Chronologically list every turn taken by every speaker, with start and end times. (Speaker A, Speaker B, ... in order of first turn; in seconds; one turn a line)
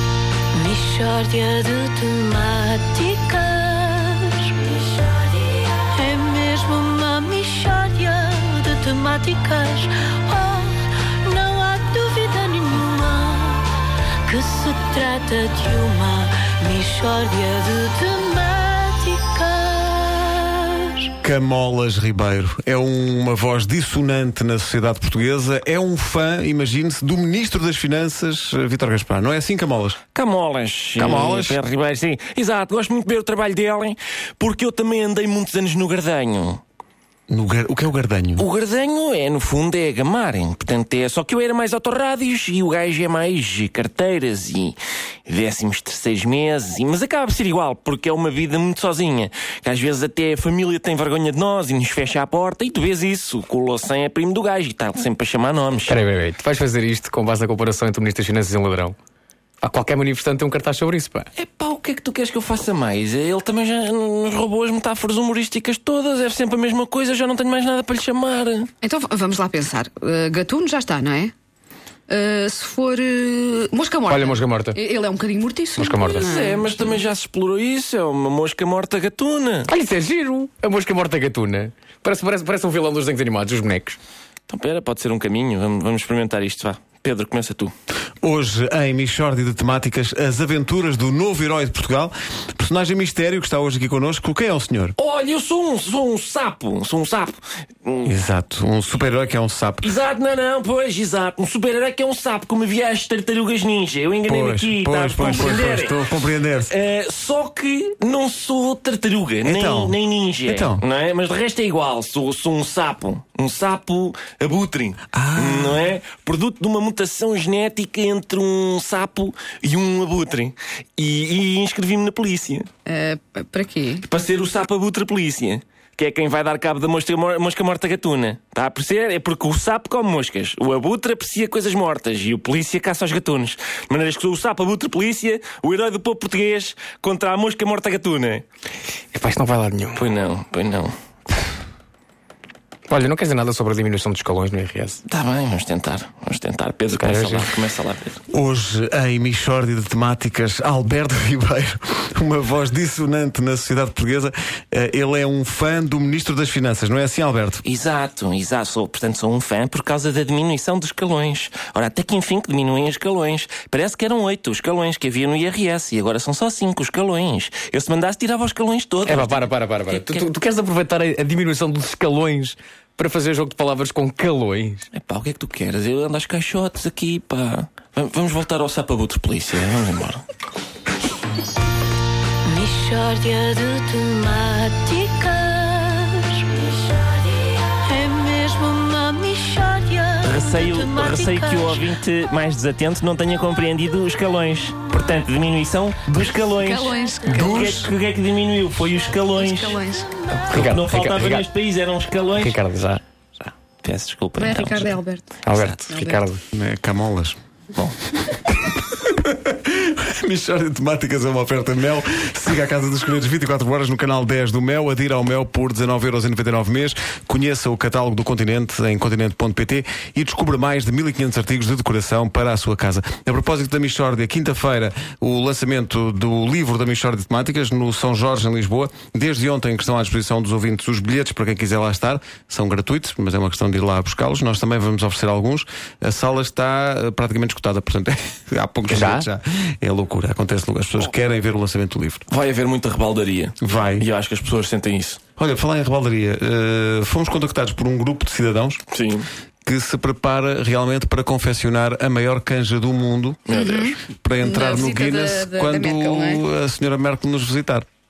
Speaker A: 0.5-21.1
Speaker B: 21.2-30.0
Speaker C: 30.1-36.6
Speaker B: 30.9-31.6
Speaker B: 37.3-38.5
Speaker C: 38.4-44.8
Speaker C: 45.3-56.0
Speaker D: 55.9-59.0
Speaker D: 59.6-61.3
Speaker C: 61.4-68.7
Speaker E: 68.8-71.3
Speaker E: 72.1-76.8
Speaker D: 74.1-74.8
Speaker D: 75.8-76.3
Speaker C: 75.9-79.7
Speaker D: 79.7-84.0
Speaker C: 84.5-87.7
Speaker B: 88.2-95.0
Speaker C: 95.0-98.2
Speaker B: 98.0-99.9
Speaker C: 99.8-106.0
Speaker B: 104.3-106.7
Speaker C: 106.7-122.7
Speaker B: 109.4-110.8
Speaker B: 115.1-115.9
Speaker E: 122.8-124.0
Speaker C: 124.0-138.4
Speaker D: 139.1-140.0
Speaker C: 139.9-140.9
Speaker D: 142.9-145.0
Speaker C: 145.1-148.2
Speaker D: 146.9-147.5
Speaker B: 148.3-157.6
Speaker C: 157.6-170.2
Speaker D: 169.1-174.9
Speaker C: 174.9-180.2
Speaker A: 182.4-186.7
Speaker A: 187.7-191.8
Speaker C: 190.2-199.8
Speaker E: 196.5-197.8
Speaker B: 197.2-197.9
Speaker E: 199.3-200.1
Speaker D: 200.5-201.4
Speaker C: 200.5-202.5
Speaker D: 202.4-203.0
Speaker C: 203.8-204.9
Speaker E: 204.3-206.2
Speaker D: 205.4-206.4
Speaker C: 205.5-205.8
Speaker B: 206.5-207.3
Speaker B: 208.9-242.2
Speaker D: 238.9-239.3
Speaker C: 242.3-245.2
Speaker B: 243.6-244.1
Speaker B: 245.4-248.8
Speaker C: 248.9-249.3
Speaker B: 249.6-257.8
Speaker C: 253.5-253.9
Speaker E: 253.5-256.4